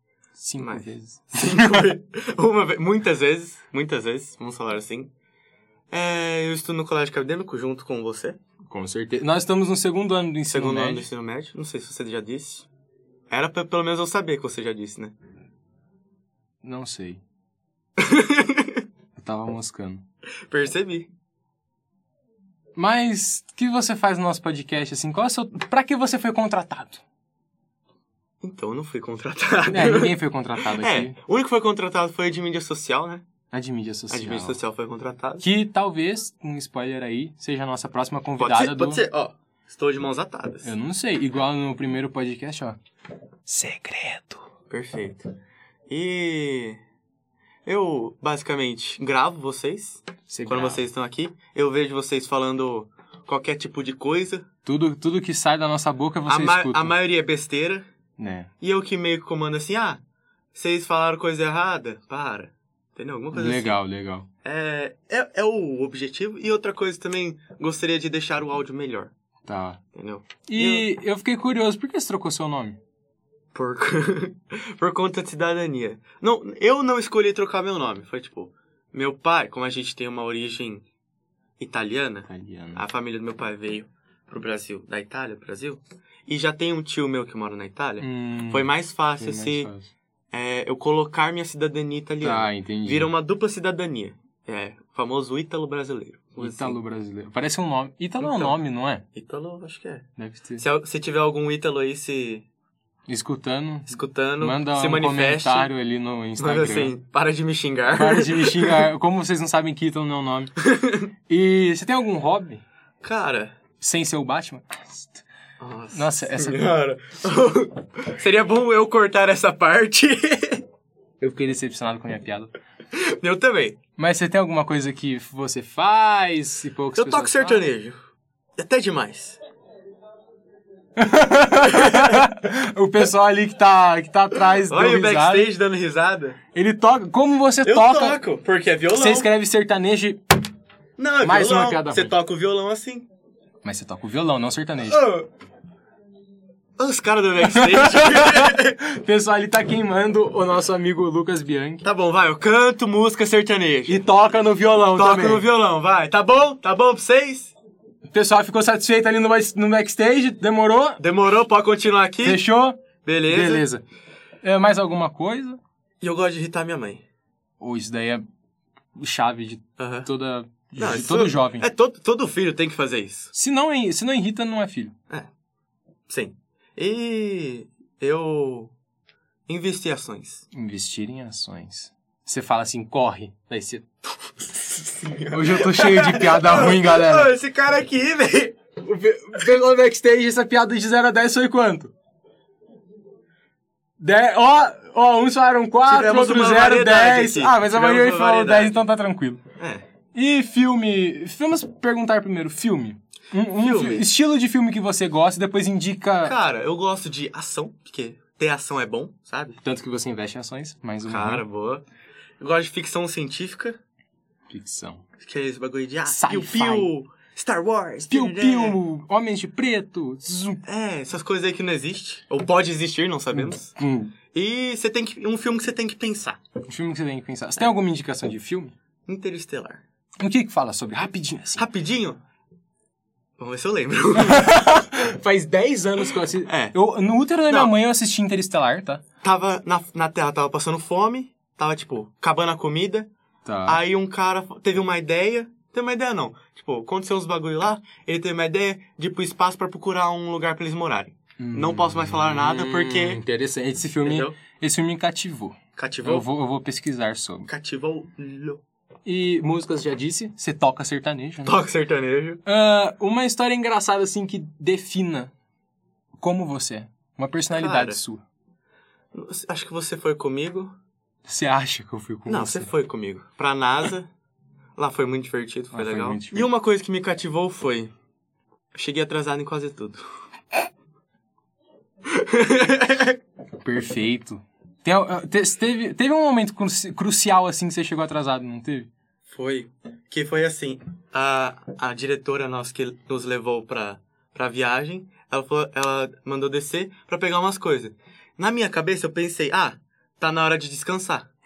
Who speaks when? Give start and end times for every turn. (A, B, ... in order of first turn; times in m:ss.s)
0:00.4-0:01.7 A
0:00.6-0:05.1 B
0:05.9-0:08.4 B
0:08.7-0:11.1 A
0:10.5-0:12.7 B
0:13.3-0:15.2 B
0:16.6-0:17.2 A
0:18.0-0:18.8 B
0:19.2-0:20.0 A
0:20.5-0:21.1 B
0:22.8-0:27.0 A
0:28.4-0:33.2 B
0:29.7-0:31.2 A
0:33.5-0:34.6 A
0:34.1-0:35.5 B
0:35.4-0:39.0 A
0:38.4-0:40.7 B
0:40.6-0:42.8 A
0:43.5-0:44.4 A
0:44.7-0:45.3 B
0:45.9-0:46.8 B
0:47.6-0:54.5 B
0:50.3-0:50.8 A
0:54.6-0:56.9 A
0:56.3-0:57.8 B
0:58.2-0:58.5 A
0:58.6-1:00.0 B
1:00.5-1:03.8 B
1:03.3-1:04.3 A
1:04.4-1:09.1 B
1:09.5-1:09.8 A
1:09.9-1:10.9 B
1:10.5-1:12.8 A
1:13.5-1:20.8 B
1:21.6-1:29.7 B
1:22.3-1:22.8 A
1:28.0-1:29.9 A
1:30.3-1:36.8 B
1:32.2-1:33.1 A
1:36.4-1:39.0 A
1:38.2-1:38.6 B
1:39.2-1:40.1 B
1:40.2-1:40.6 A
1:40.6-1:42.5 B
1:43.1-1:46.9 A
1:43.9-1:45.7 B
1:46.4-1:48.9 B
1:47.9-1:50.5 A
1:50.6-1:51.1 B
1:51.3-1:52.6 A
1:53.0-1:53.6 B
1:53.8-1:55.2 A
1:55.6-2:00.6 B
1:55.9-1:56.7 A
2:01.2-2:02.5 A
2:02.9-2:03.8 B
2:04.0-2:07.6 A
2:07.0-2:08.0 B
2:08.6-2:09.4 B
2:11.0-2:15.5 A
2:11.7-2:12.2 B
2:14.5-2:16.4 B
2:16.6-2:18.2 A
2:17.6-2:19.3 B
2:18.9-2:20.2 A
2:21.0-2:23.1 B
2:21.2-2:22.1 A
2:23.6-2:25.0 A
2:24.8-2:25.3 B
2:26.8-2:28.8 B
2:27.4-2:31.8 A
2:31.8-2:34.0 B
2:33.9-2:35.4 A
2:34.9-2:37.5 B
2:38.1-2:41.0 A
2:41.0-2:42.4 B
2:42.2-2:43.8 A
2:43.0-2:43.7 B
2:44.4-2:45.6 A
2:46.0-2:47.0 B
2:47.6-2:48.2 A
2:49.0-2:51.7 A
2:49.8-2:50.1 B
2:50.8-2:53.3 B
2:53.3-2:54.9 A
2:56.1-2:58.7 B
2:59.5-3:00.4 B
3:00.5-3:03.8 A
3:04.4-3:08.6 B
3:05.3-3:07.3 A
3:08.8-3:11.9 A
3:14.0-3:19.4 A
3:15.8-3:18.9 B
3:19.6-3:19.8 B
3:20.2-3:26.4 A
3:23.6-3:24.1 B
3:26.2-3:29.6 B
3:29.6-3:31.4 A
3:31.0-3:31.8 B
3:32.4-3:33.8 B
3:34.5-3:35.0 A
3:35.2-3:38.8 B
3:36.1-3:36.9 A
3:38.1-3:40.6 A
3:40.6-3:43.8 B
3:43.3-3:44.1 A
3:44.3-3:46.4 B
3:46.7-3:48.7 A
3:49.1-3:49.8 B
3:50.2-3:51.6 A
3:51.6-3:52.2 B
3:53.4-3:54.5 B
3:54.2-3:59.0 A
3:56.4-3:56.8 B
3:59.2-4:03.1 B
4:03.4-4:03.8 A
4:03.7-4:13.2 B
4:11.4-4:17.5 A
4:14.0-4:14.4 B
4:15.8-4:16.3 B
4:17.5-4:18.6 B
4:19.1-4:21.6 A
4:21.4-4:22.4 B
4:22.4-4:25.3 A
4:26.2-4:28.2 A
4:27.6-4:28.0 B
4:29.1-4:30.7 B
4:31.3-4:32.7 A
4:32.3-4:34.1 B
4:34.8-4:37.9 B
4:35.7-4:36.5 A
4:38.7-4:40.0 B
4:42.1-4:43.2 B
4:43.6-4:48.9 A
4:49.3-5:01.3 B